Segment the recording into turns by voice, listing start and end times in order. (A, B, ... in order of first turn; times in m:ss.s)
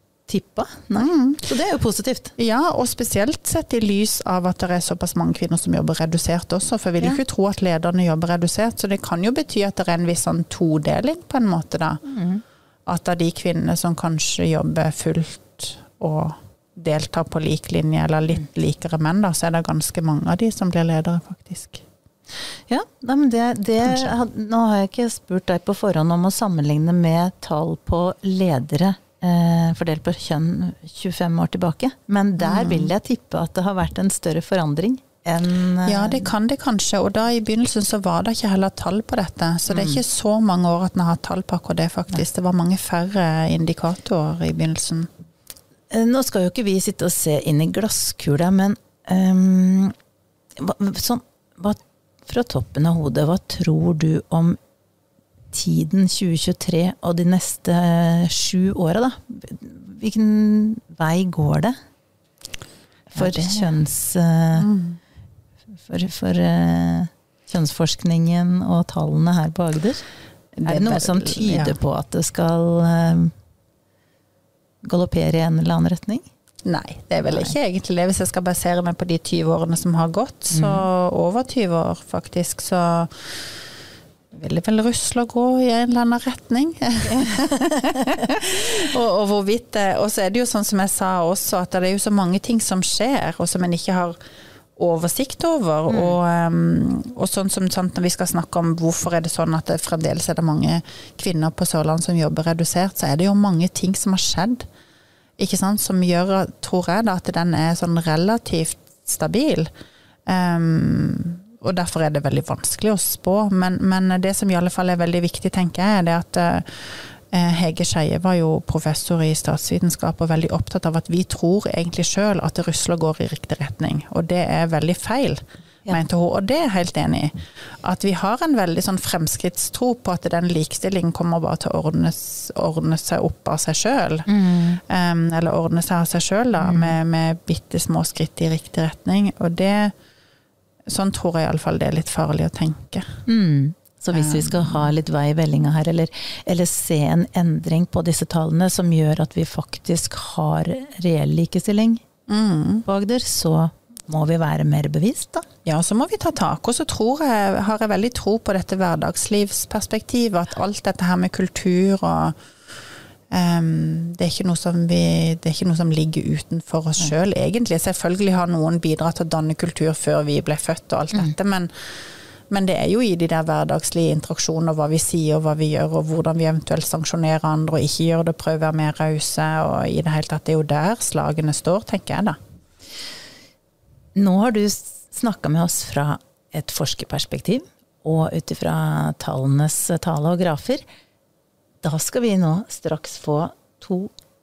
0:00.3-0:02.3 A
0:01.0-0:01.4 B
0:02.4-0:12.0 B
0:12.1-0:12.4 A
0:12.9-0:21.8 B
0:22.7-0:36.3 A
0:23.8-0:24.1 B
0:32.4-0:32.9 B
0:35.8-0:45.1 B
0:39.7-0:40.0 A
0:45.9-0:50.0 A
0:50.6-0:54.6 A
0:55.5-1:01.8 A
1:03.1-1:04.7 A
1:03.2-1:03.7 B
1:04.6-1:05.0 B
1:05.8-1:10.0 A
1:10.6-1:11.8 B
1:10.6-1:13.3 A
1:14.8-1:16.2 A
1:16.6-1:23.6 B
1:20.5-1:20.8 A
1:24.3-1:34.2 B
1:34.8-1:44.6 B
1:35.9-1:36.2 A
1:45.4-1:49.7 B
1:50.3-2:19.9 B
2:14.3-2:14.8 A
2:16.6-2:17.0 A
2:20.9-2:23.2 B
2:23.3-2:32.0 A
2:24.1-2:24.9 B
2:32.3-2:32.9 B
2:32.9-2:35.5 A
2:35.6-2:42.4 B
2:43.3-2:51.9 B
2:52.5-3:02.4 B
3:04.2-3:10.8 A
3:11.8-3:14.1 A